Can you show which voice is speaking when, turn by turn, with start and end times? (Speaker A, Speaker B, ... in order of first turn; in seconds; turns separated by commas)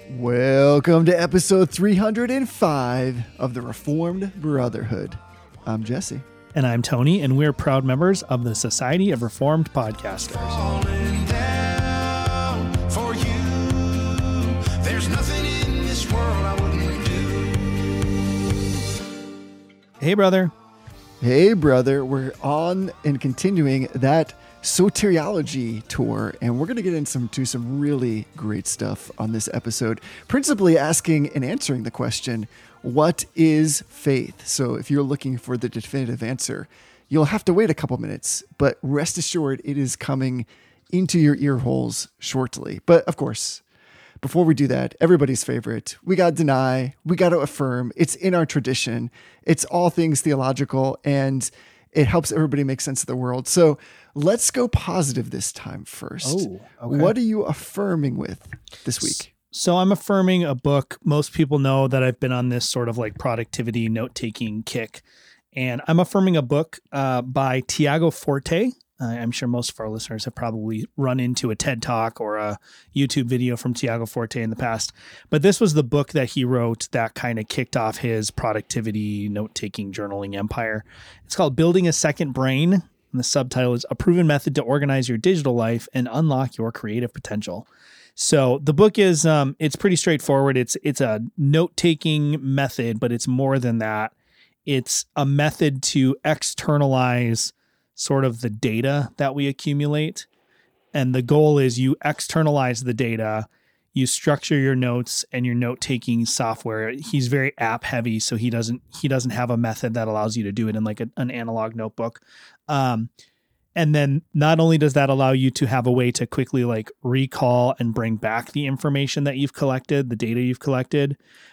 Speaker A: 0.1-6.2, Speaker B: 6.5-10.6, Speaker C: 10.2-18.3, Speaker B: 20.0-20.5, Speaker A: 21.2-43.6, Speaker A: 44.2-59.3, Speaker B: 56.2-57.1, Speaker B: 59.0-65.0, Speaker B: 65.5-94.1, Speaker B: 94.7-100.3, Speaker B: 100.9-113.1, Speaker B: 113.8-121.2